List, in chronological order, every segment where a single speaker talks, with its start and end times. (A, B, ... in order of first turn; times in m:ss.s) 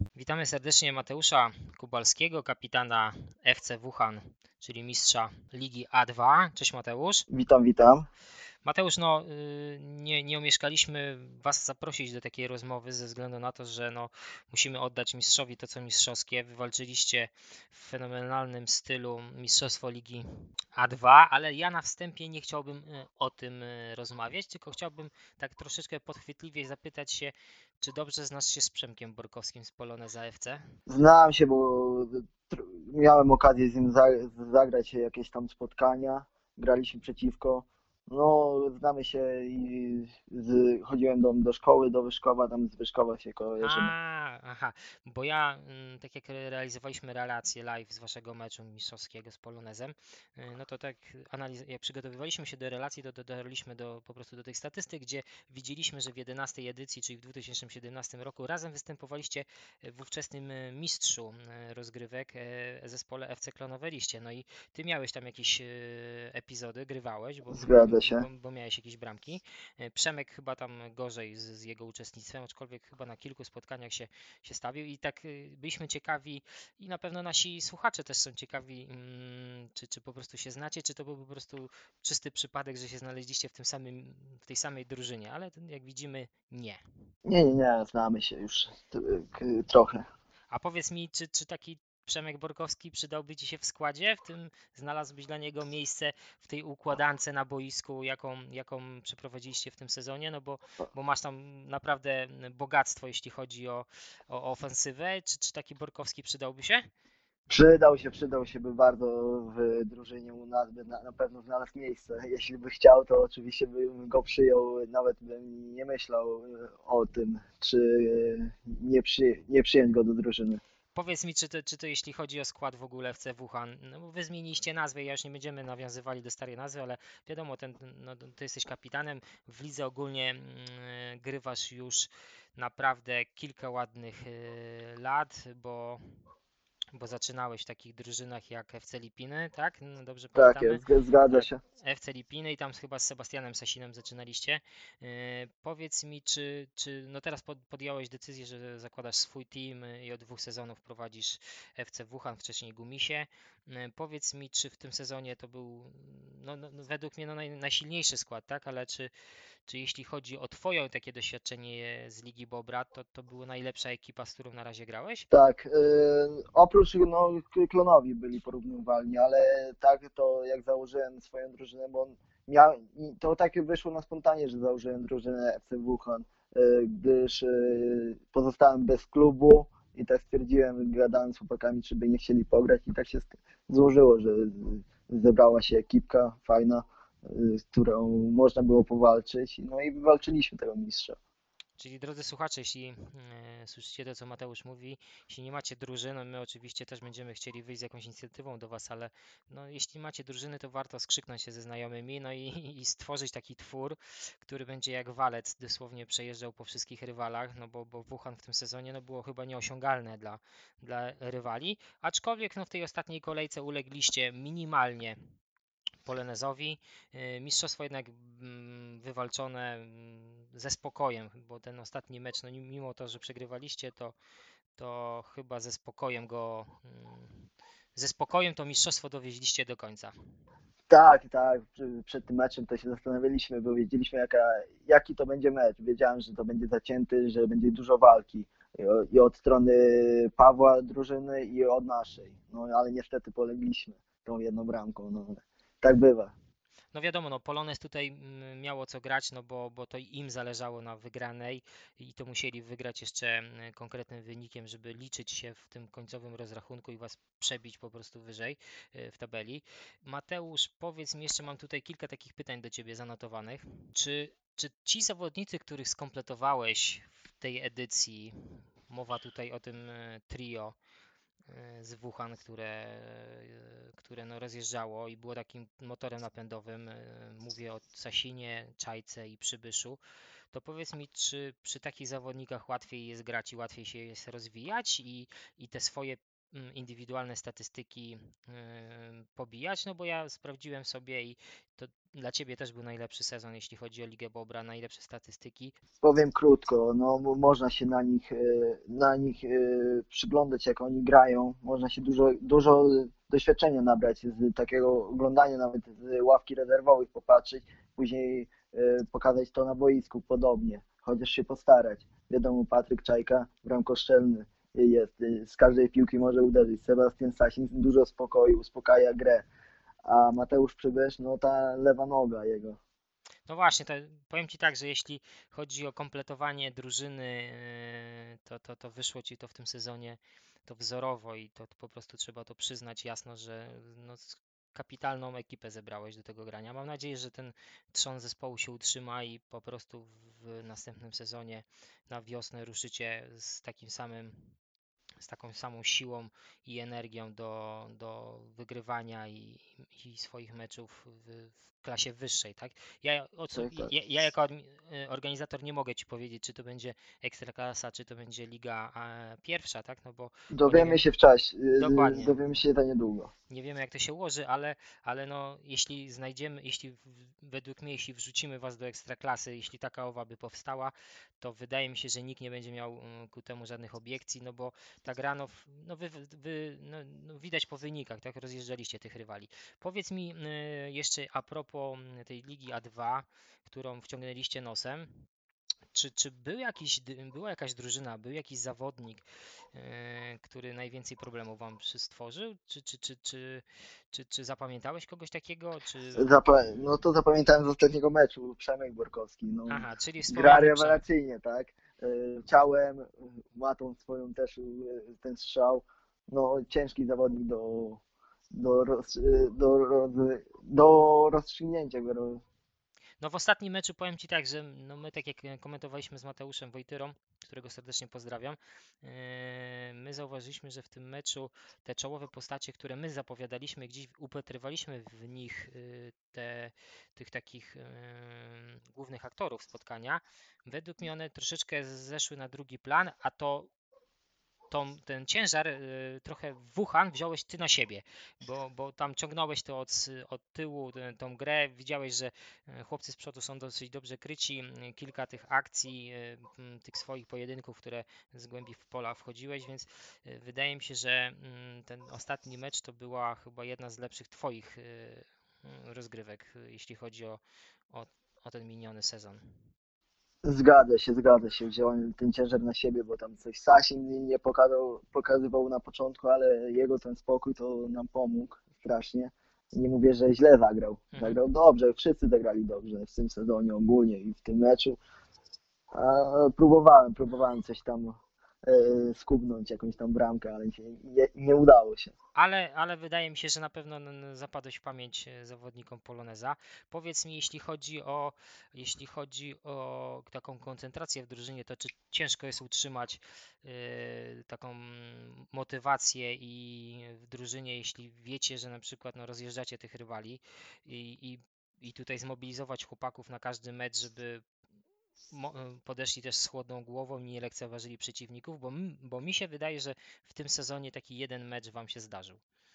0:00.2-0:07.3 A
0:07.3-0:08.1 B
0:08.6-0:30.6 A
0:30.9-0:43.9 B
0:43.6-1:26.8 A
1:07.5-1:08.2 B
1:27.3-1:30.0 B
1:30.5-1:46.9 A
1:47.5-2:00.6 B
2:00.9-2:16.0 A
2:16.9-2:39.1 A
2:20.4-2:21.6 B
2:39.7-2:45.3 A
2:45.3-3:11.2 B
3:11.8-3:35.2 A
3:36.0-3:44.2 A
3:44.8-3:50.1 A
3:50.9-4:06.3 B
4:06.9-4:30.8 A
4:31.5-4:40.0 A
4:40.5-4:55.8 A
4:56.0-5:19.4 B
5:20.1-5:22.8 B
5:23.5-5:44.5 A
5:45.2-6:01.0 A
5:53.6-5:53.9 B
6:00.5-6:03.3 B
6:01.8-6:02.4 A
6:03.5-6:25.2 A
6:25.9-6:29.2 A
6:29.7-6:36.3 A
6:36.2-6:48.0 B
6:39.7-6:41.0 A
6:48.5-6:52.4 B
6:53.2-7:13.7 A
7:14.7-7:39.4 A
7:40.4-7:55.0 B
7:51.1-7:51.4 A
7:55.9-8:02.1 B
8:02.4-8:24.4 A
8:25.3-8:32.4 A